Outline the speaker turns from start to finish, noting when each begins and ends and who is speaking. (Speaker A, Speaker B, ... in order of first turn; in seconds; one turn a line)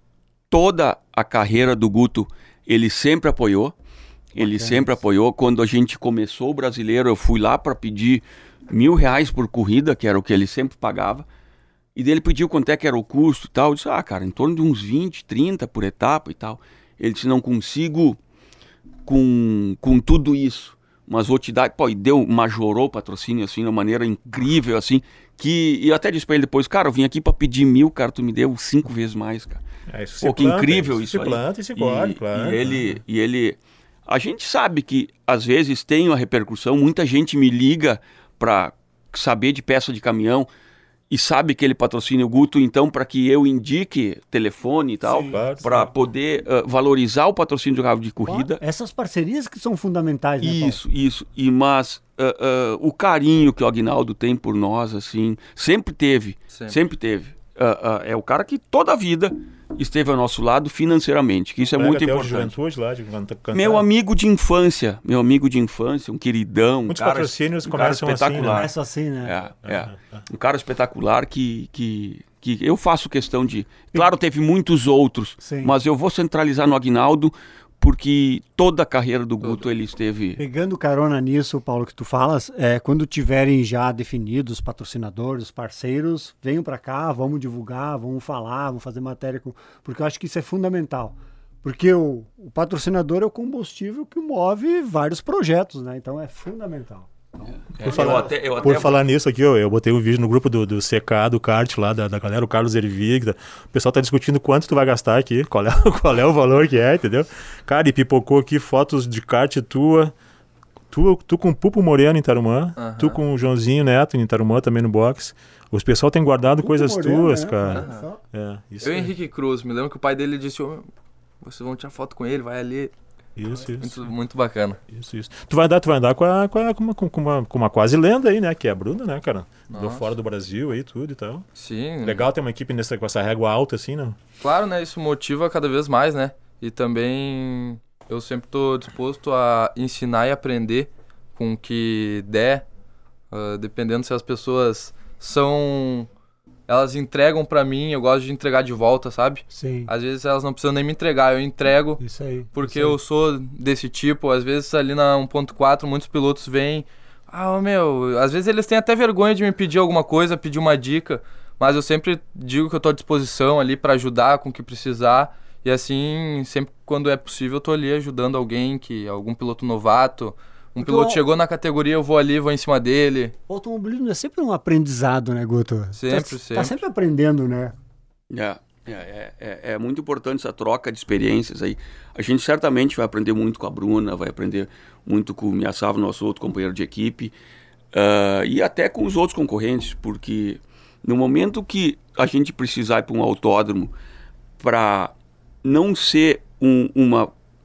Speaker A: 0.5-3.7
Speaker B: 4.3-4.9
Speaker A: 4.3-11.2
Speaker A: 11.9-18.2
Speaker A: 19.1-29.6
Speaker C: 29.9-33.0
Speaker A: 30.2-40.5
Speaker A: 41.1-48.6
Speaker C: 45.0-45.9
Speaker B: 48.2-50.8
Speaker A: 50.4-62.5
Speaker D: 56.5-56.8
Speaker C: 61.7-63.8
Speaker A: 63.5-68.7
Speaker C: 66.9-68.7
Speaker B: 68.5-69.3
Speaker A: 69.2-80.4
Speaker C: 69.7-70.2
Speaker B: 75.4-75.7
Speaker B: 80.4-98.2
Speaker A: 97.7-99.0
Speaker C: 97.8-110.1
Speaker C: 110.9-119.1
Speaker D: 112.8-113.2
Speaker B: 116.6-118.2
Speaker D: 117.7-118.0
Speaker D: 118.8-120.9
Speaker D: 121.4-122.9
Speaker C: 123.3-124.1
Speaker D: 123.8-124.8
Speaker C: 124.9-131.4
Speaker D: 129.7-130.1
Speaker D: 131.6-132.2
Speaker C: 132.0-134.2
Speaker D: 134.4-142.6
Speaker D: 143.3-146.1
Speaker D: 146.7-152.0
Speaker B: 149.5-149.9
Speaker B: 152.0-153.0
Speaker D: 152.5-173.3
Speaker B: 170.8-171.2
Speaker B: 173.5-177.7
Speaker D: 175.9-176.8
Speaker A: 178.3-187.3
Speaker A: 187.9-193.9
Speaker A: 194.6-197.3